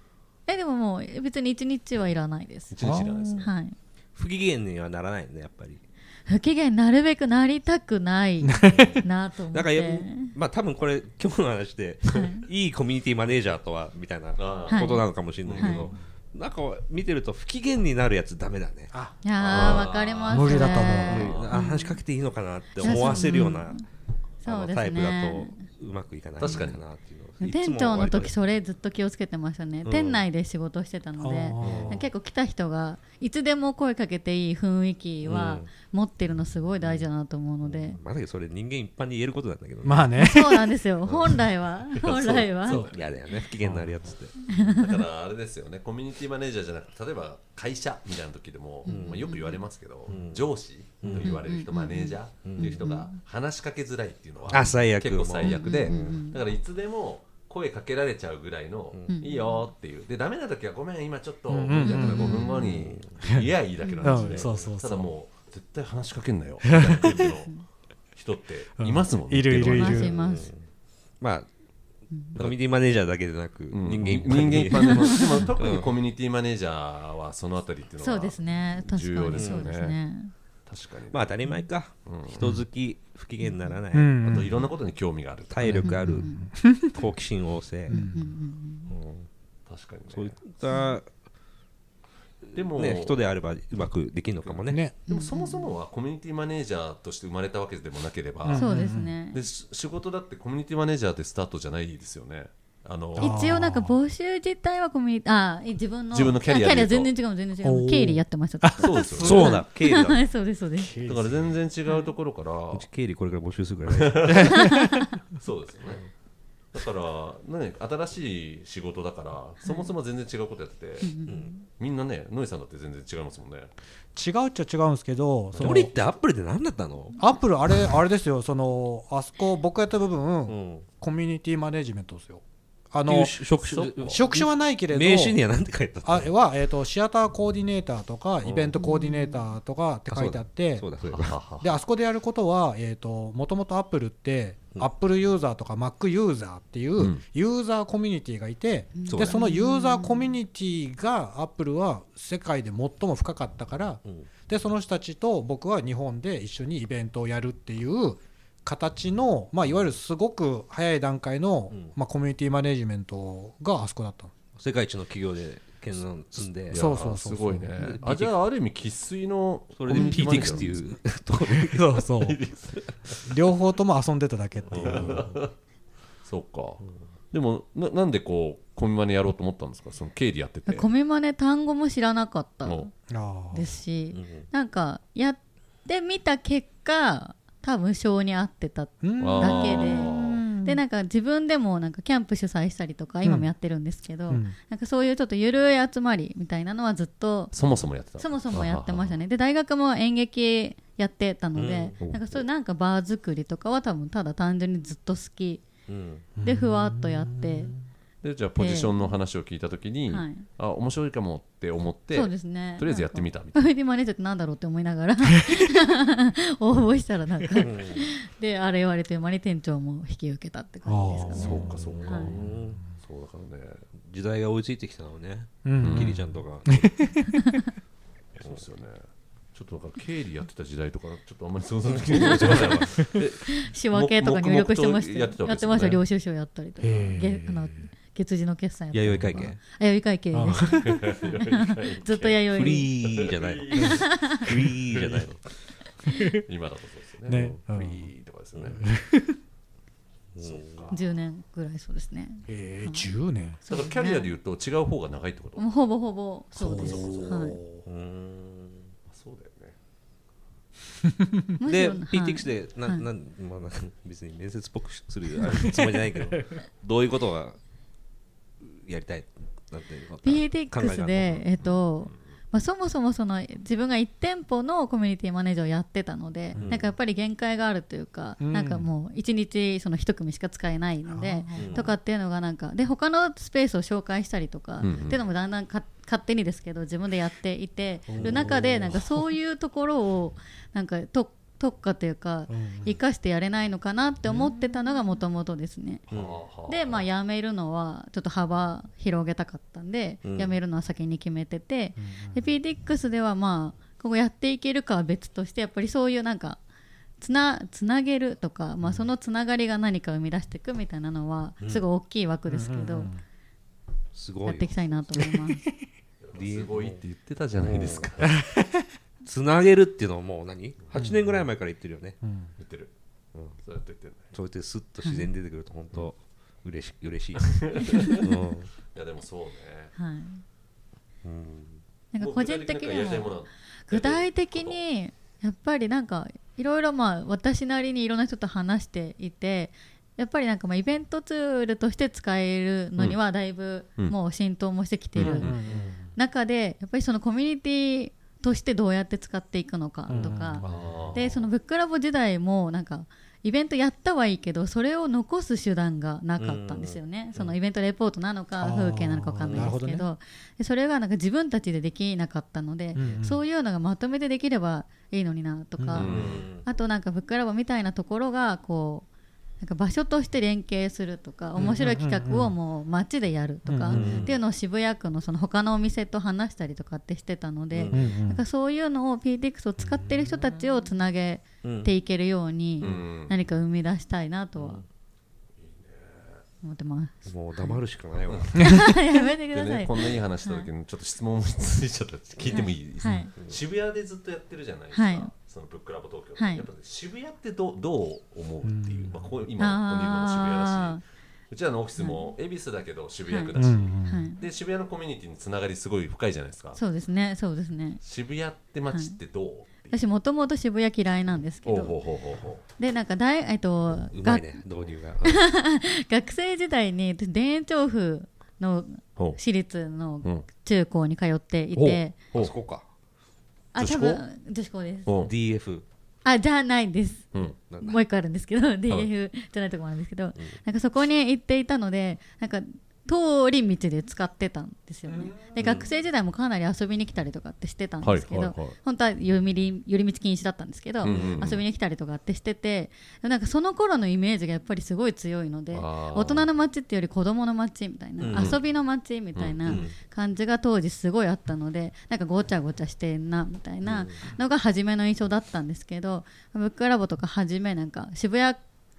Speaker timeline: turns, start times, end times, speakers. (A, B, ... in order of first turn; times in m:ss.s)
0:00.5-0:02.8 A
0:02.7-0:03.5 B
0:02.8-0:03.5 C
0:03.4-0:03.8 A
0:04.2-0:05.8 D
0:06.3-0:10.4 A
0:08.4-0:09.0 C
0:08.7-0:08.9 D
0:09.5-0:18.9 D
0:12.1-0:12.5 A
0:14.4-0:15.9 B
0:14.7-0:15.0 A
0:15.6-0:15.9 A
0:19.2-0:22.0 A
0:19.4-0:21.5 B
0:19.5-0:19.8 D
0:20.3-0:21.3 C
0:21.1-0:23.8 D
0:22.8-0:23.8 A
0:22.9-0:23.5 C
0:24.4-0:25.6 A
0:24.4-0:28.3 D
0:26.4-0:26.8 B
0:27.4-0:38.0 A
0:29.8-0:30.2 D
0:31.2-0:32.1 C
0:31.6-0:32.0 D
0:35.2-0:35.7 D
0:36.8-0:37.1 D
0:37.6-0:40.2 D
0:39.8-0:40.7 C
0:40.2-0:42.9 A
0:41.1-0:41.4 D
0:42.0-0:43.1 B
0:42.7-0:44.4 D
0:44.5-0:45.0 A
0:44.5-1:07.6 B
0:48.8-0:49.6 A
0:48.9-0:49.2 D
0:50.1-0:50.5 D
0:51.0-0:51.4 D
0:51.2-0:53.2 A
0:52.4-0:52.8 D
0:54.5-0:56.1 D
0:55.4-0:56.4 A
0:59.1-0:59.7 A
1:01.5-1:02.4 C
1:01.8-1:02.8 A
1:01.9-1:03.2 D
1:03.2-1:03.5 C
1:03.8-1:04.5 A
1:04.0-1:05.1 C
1:06.6-1:07.4 C
1:07.3-1:07.6 A
1:08.2-1:10.2 B
1:08.8-1:10.1 C
1:09.6-1:10.5 A
1:10.1-1:10.7 D
1:11.2-1:11.5 D
1:12.1-1:12.4 A
1:12.4-1:15.9 D
1:13.7-1:20.0 B
1:14.1-1:14.4 C
1:14.7-1:15.5 A
1:18.0-1:20.3 A
1:19.3-1:19.7 D
1:20.7-1:21.3 B
1:21.1-1:24.5 D
1:22.0-1:22.5 B
1:23.9-1:24.6 C
1:24.3-1:25.8 B
1:25.5-1:26.3 D
1:25.6-1:27.0 C
1:25.8-1:26.5 A
1:26.9-1:28.0 D
1:27.9-1:28.9 A
1:27.9-1:28.3 C
1:28.9-1:29.3 D
1:29.7-1:30.4 B
1:30.1-1:31.1 D
1:32.5-1:34.8 D
1:32.5-1:33.2 B
1:34.4-1:38.8 B
1:34.7-1:35.0 C
1:35.1-1:35.7 A
1:38.4-1:39.1 C
1:38.5-1:39.4 A
1:39.3-1:43.4 B
1:43.2-1:44.0 C
1:43.2-1:51.0 A
1:46.1-1:47.1 B
1:47.6-1:49.5 C
1:48.8-1:49.6 B
1:49.2-1:50.2 D
1:50.8-1:51.6 C
1:51.0-1:52.9 B
1:51.9-1:52.1 A
1:52.7-1:54.6 D
1:53.9-1:54.8 B
1:54.3-1:55.1 C
1:54.6-1:55.0 A
1:55.4-1:56.1 B
1:56.7-2:01.1 B
1:59.6-1:59.9 A
2:01.0-2:01.7 A
2:01.3-2:01.5 D
2:01.7-2:03.7 B
2:04.2-2:05.9 C
2:05.6-2:05.8 B
2:05.6-2:07.2 D
2:07.2-2:13.4 C
2:10.5-2:10.9 D
2:13.1-2:16.3 D
2:13.6-2:14.2 B
2:14.0-2:15.4 C
2:16.0-2:20.9 C
2:18.4-2:18.8 D
2:18.8-2:19.5 A
2:20.1-2:21.3 D
2:21.1-2:21.8 B
2:21.4-2:44.3 C
2:27.0-2:27.2 B
2:29.0-2:30.4 A
2:29.1-2:29.4 D
2:41.7-2:42.0 D
2:44.6-2:46.9 D
2:46.7-2:50.8 B
2:46.7-2:48.0 C
2:47.8-2:48.3 D
2:49.8-2:51.9 D
2:50.0-2:50.6 C
2:51.4-2:52.4 C
2:52.1-2:53.3 B
2:53.2-2:55.3 C
2:54.7-2:55.3 D
2:54.7-2:55.5 B
2:56.2-3:00.9 B
3:00.7-3:02.9 A
3:03.1-3:03.8 C
3:03.5-3:17.6 A
3:04.1-3:04.5 D
3:09.0-3:10.8 C
3:09.2-3:10.4 B
3:13.2-3:13.5 C
3:14.3-3:14.6 C
3:17.5-3:19.2 B
3:18.2-3:25.6 A
3:21.6-3:22.0 D
3:22.0-3:22.4 B
3:25.9-3:26.3 D
3:26.4-3:27.8 C
3:26.4-3:27.7 A
3:28.2-3:33.7 B
3:28.6-3:29.2 A
3:30.1-3:30.4 A
3:32.1-3:42.4 A
3:37.6-3:38.1 D
3:40.9-3:41.7 C
3:41.3-3:43.8 B
3:41.4-3:42.8 D
3:44.1-3:47.2 D
3:45.6-3:47.4 C
3:45.8-3:46.1 B
3:48.4-3:56.0 B
3:52.2-3:53.0 D
3:53.5-4:02.9 A
3:56.8-3:57.7 C
3:58.9-3:59.6 D
4:00.3-4:01.1 C
4:00.8-4:05.3 B
4:02.5-4:05.4 D
4:03.8-4:04.4 A
4:06.1-4:06.4 C
4:06.3-4:08.8 B
4:07.3-4:08.1 C
4:08.8-4:09.4 C
4:10.4-4:10.9 D
4:10.4-4:11.0 B
4:10.9-4:13.1 A
4:12.5-4:13.6 C
4:13.7-4:14.3 A
4:13.7-4:15.7 B
4:15.6-4:17.6 A
4:16.6-4:17.8 C
4:16.7-4:17.6 B
4:17.8-4:18.9 D
4:19.1-4:19.8 B
4:21.1-4:21.4 C
4:21.6-4:23.1 A
4:21.7-4:27.6 D
4:25.7-4:26.2 C
4:28.6-4:31.5 D
4:30.2-4:56.0 A
4:36.6-4:36.9 D
4:38.4-4:38.9 C
4:41.1-4:42.0 C
4:41.6-4:41.9 D
4:44.8-4:45.2 B
4:48.1-4:49.3 C
4:48.2-4:48.4 D
4:52.5-4:53.0 C
4:54.3-4:54.5 C
4:56.1-4:57.0 B
4:56.1-4:56.4 D
4:56.7-5:06.6 A
5:00.2-5:00.6 D
5:02.0-5:02.5 C
5:07.2-5:13.1 A
5:12.5-5:13.2 C
5:14.1-5:15.3 D
5:14.4-5:15.7 A
5:16.2-5:18.4 B
5:16.3-5:17.0 D
5:17.6-5:18.1 D
5:18.2-5:18.8 C
5:19.2-5:22.2 D
5:22.2-5:22.5 C
5:22.6-5:22.9 B
5:23.6-5:24.3 B
5:24.3-5:28.7 D
5:25.0-5:25.3 A
5:27.5-5:28.3 B
5:28.9-5:29.9 B
5:30.0-5:30.4 A
5:31.2-5:31.8 D
5:32.1-5:45.6 A
5:32.2-5:34.8 B
5:45.2-5:45.6 B
5:45.2-5:46.1 C
5:46.2-6:06.1 A
5:50.1-5:50.8 C
5:50.6-5:51.5 B
5:56.4-5:57.6 D
5:58.6-6:00.1 C
5:59.4-5:59.8 D
6:03.0-6:03.4 C
6:05.8-6:06.1 C
6:06.0-6:06.5 B
6:06.0-6:06.7 D
6:06.6-6:09.1 A
6:09.6-6:24.8 A
6:11.6-6:12.6 C
6:13.7-6:14.2 C
6:13.9-6:14.4 D
6:17.7-6:18.2 D
6:17.9-6:18.4 C
6:19.8-6:20.4 C
6:21.6-6:21.9 D
6:22.8-6:23.4 B
6:24.6-6:24.8 D
6:25.6-6:26.4 B
6:26.6-6:27.8 A
6:27.3-6:28.7 D
6:28.3-6:28.7 B
6:28.6-6:30.7 A
6:29.5-6:41.0 B
6:32.4-6:33.3 A
6:34.9-6:35.3 A
6:36.4-6:36.7 A
6:38.6-6:39.3 C
6:39.6-6:41.0 A
6:41.5-6:46.8 B
6:42.0-6:42.3 A
6:43.3-6:44.4 A
6:43.6-6:44.3 C
6:46.8-6:48.0 A
6:48.0-6:50.0 B
6:48.9-6:49.2 A
6:49.9-6:52.0 A
6:51.6-6:52.6 B
6:52.8-6:54.6 A
6:54.1-6:55.5 D
6:55.2-7:02.2 A
7:01.8-7:02.8 D
7:03.7-7:05.1 A
7:03.8-7:04.2 B
7:05.1-7:05.3 B
7:05.2-7:05.8 D
7:06.2-7:38.6 A
7:07.7-7:08.0 D
7:15.1-7:15.4 C
7:15.6-7:15.9 D
7:18.0-7:18.8 B
7:21.0-7:21.6 B
7:21.0-7:21.5 D
7:25.7-7:26.5 B
7:28.2-7:28.6 D
7:28.3-7:28.6 B
7:29.4-7:29.9 B
7:29.6-7:30.0 D
7:33.8-7:34.3 D